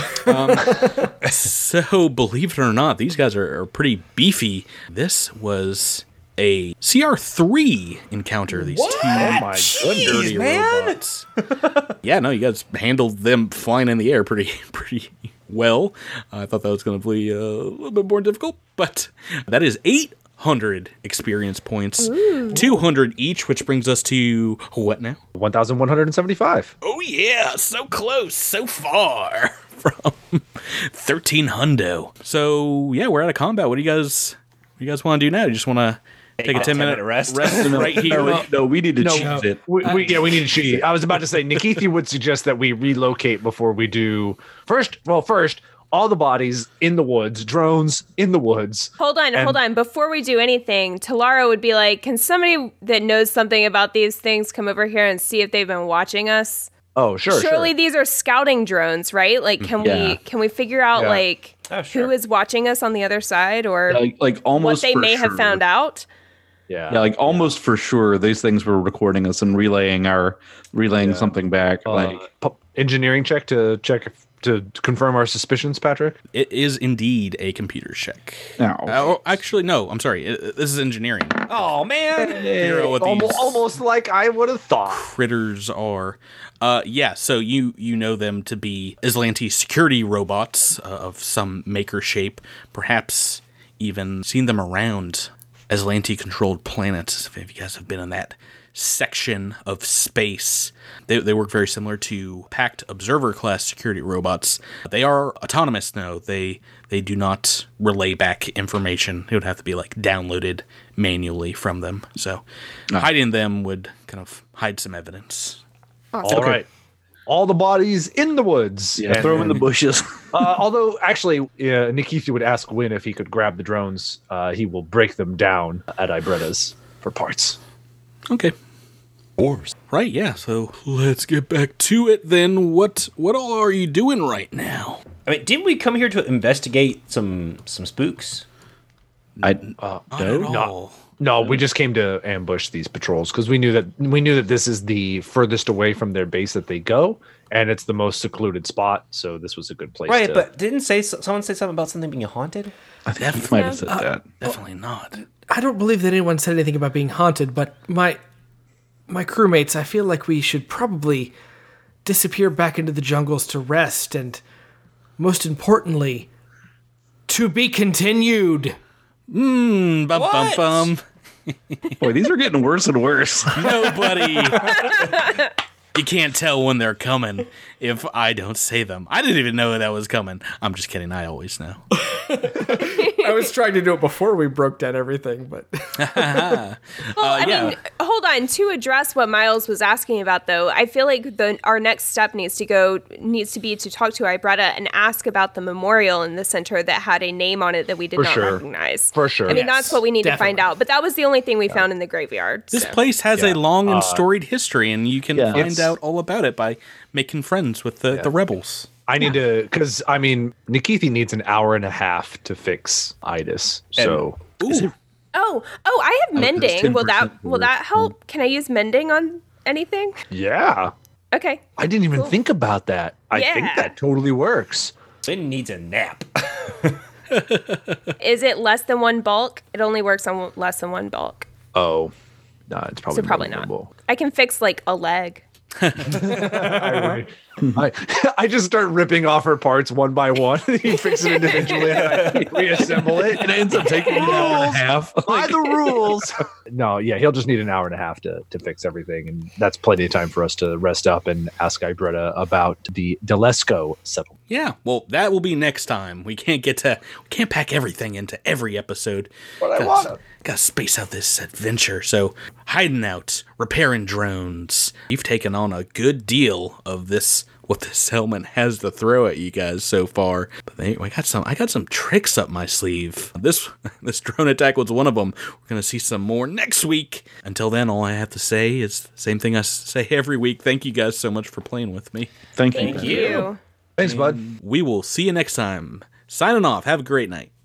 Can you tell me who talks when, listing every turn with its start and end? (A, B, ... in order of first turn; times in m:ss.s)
0:00.2-0:00.9 A
0:00.2-0:11.2 B
0:08.6-0:11.8 C
0:09.0-0:10.3 D
0:12.0-0:25.2 B
0:22.2-0:22.6 E
0:25.3-0:26.7 D
0:26.8-0:38.5 B
0:36.4-0:38.4 C
0:37.3-0:39.6 F
0:39.0-0:40.4 A
0:39.0-0:49.6 D
0:49.0-0:56.7 E
0:56.9-0:57.7 D
0:57.2-1:04.0 E
0:59.8-1:00.2 F
1:00.9-1:01.2 D
1:01.7-1:02.1 C
1:03.9-1:05.6 F
1:04.6-1:06.1 E
1:06.7-1:07.5 D
1:06.9-1:12.2 F
1:10.9-1:16.2 D
1:16.3-1:21.7 B
1:18.6-1:19.1 F
1:21.5-1:22.7 C
1:22.2-1:25.0 D
1:22.6-1:23.6 B
1:24.9-1:55.6 B
1:56.2-1:56.6 F
1:56.2-1:56.7 D
1:57.2-1:59.7 D
1:59.0-2:00.4 F
1:59.2-1:59.5 B
2:00.3-2:07.6 D
2:08.3-2:08.5 B
2:09.4-2:09.7 C
2:09.9-2:15.0 B
2:15.2-2:18.4 C
2:19.4-2:21.0 B
2:19.8-2:30.5 D
2:30.1-2:32.7 C
2:33.1-2:34.2 F
2:33.1-2:33.9 B
2:33.5-2:33.8 E
2:34.4-2:35.2 B
2:35.5-2:38.2 A
2:39.1-2:41.3 A
2:42.0-2:44.4 A
2:45.2-2:46.3 A
2:47.3-2:48.8 A
2:49.3-2:51.9 B
2:50.1-2:50.9 C
2:52.0-2:54.5 F
2:53.5-2:55.2 B
2:54.9-2:55.5 E
2:55.9-3:01.8 B
3:02.0-3:06.6 A
3:02.8-3:03.3 E
3:06.0-3:07.8 B
3:07.1-3:23.0 E
3:18.2-3:19.7 D
3:19.5-3:20.7 A
3:22.7-3:28.9 B
3:23.4-3:24.2 D
3:25.3-3:25.9 F
3:25.5-3:25.9 D
3:29.1-3:34.4 D
3:34.6-3:34.9 B
3:34.6-3:34.9 F
3:35.3-3:40.2 E
3:36.3-3:38.1 F
3:40.3-3:40.9 D
3:41.3-3:42.3 E
3:41.8-3:44.9 D
3:43.3-3:43.9 E
3:45.2-3:47.0 C
3:47.3-3:48.1 B
3:48.2-3:51.5 E
3:51.7-3:52.1 D
3:52.7-3:53.9 D
3:53.1-3:55.4 E
3:55.8-3:56.3 B
3:56.0-4:14.3 D
4:02.1-4:05.7 F
4:14.5-4:42.3 B
4:19.6-4:20.2 D
4:42.6-4:43.5 F
4:42.7-4:43.6 E
4:42.8-4:43.5 C
4:44.0-4:44.4 D
4:44.0-4:47.5 B